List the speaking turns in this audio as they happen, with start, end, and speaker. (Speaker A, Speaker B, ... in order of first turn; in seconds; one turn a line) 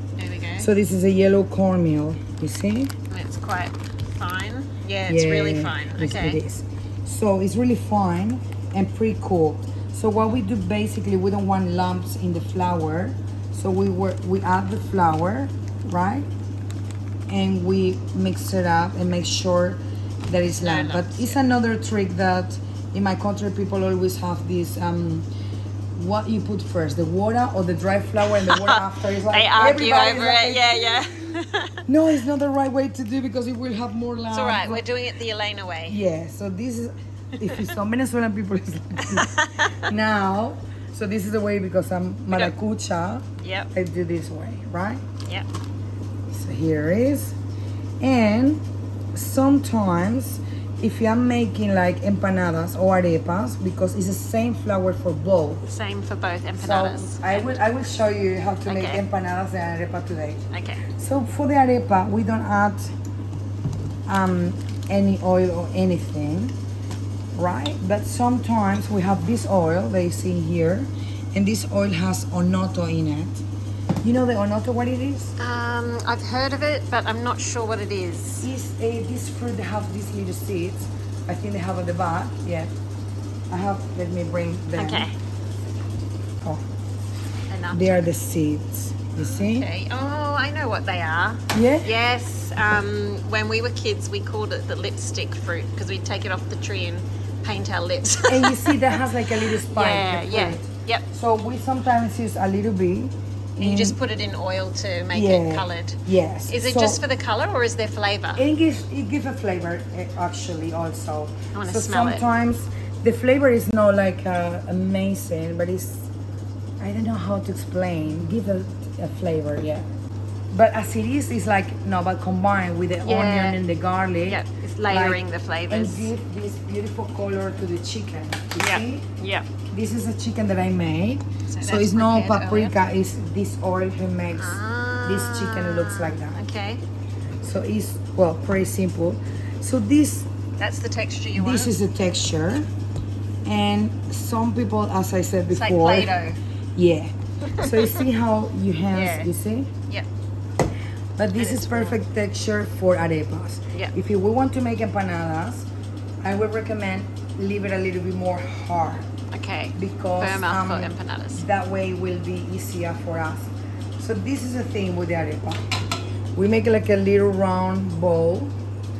Speaker A: 0.2-0.7
Speaker B: 0.6-2.9
Speaker A: 3.1-6.4
Speaker B: 5.1-16.3
Speaker B: 17.3-25.3
Speaker A: 20.6-21.4
Speaker B: 25.9-31.0
Speaker A: 28.3-31.8
Speaker B: 31.9-34.8
Speaker A: 34.3-36.0
Speaker B: 35.9-45.0
Speaker A: 37.4-37.7
Speaker A: 39.0-39.8
Speaker A: 43.4-43.7
Speaker B: 46.3-47.4
Speaker B: 48.0-48.6
Speaker B: 49.1-55.7
Speaker A: 55.7-57.5
Speaker B: 56.6-60.4
Speaker A: 58.6-59.0
Speaker A: 60.5-60.8
Speaker B: 61.0-62.9
Speaker B: 64.0-66.5
Speaker B: 67.3-73.4
Speaker B: 74.0-75.3
Speaker A: 75.4-78.5
Speaker B: 78.4-82.7
Speaker B: 83.5-85.1
Speaker A: 84.8-85.1
Speaker A: 87.5-88.0
Speaker B: 87.7-89.7
Speaker A: 89.5-101.0
Speaker B: 91.5-91.9
Speaker B: 98.3-104.0
Speaker A: 103.6-108.4
Speaker B: 105.1-107.0
Speaker B: 108.4-116.1
Speaker A: 111.5-112.2
Speaker B: 116.8-119.8
Speaker B: 120.5-129.1
Speaker A: 123.0-123.6
Speaker A: 124.3-126.1
Speaker A: 128.6-129.5
Speaker B: 129.7-136.4
Speaker A: 131.5-132.7
Speaker A: 134.3-136.8
Speaker B: 137.4-140.3
Speaker A: 140.6-141.7
Speaker B: 141.3-142.7
Speaker B: 143.4-146.1
Speaker A: 145.5-146.4
Speaker B: 146.8-149.7
Speaker A: 147.4-148.0
Speaker A: 148.9-149.3
Speaker B: 151.2-155.7
Speaker A: 151.3-152.0
Speaker B: 156.2-159.1
Speaker A: 159.3-161.4
Speaker B: 159.8-168.5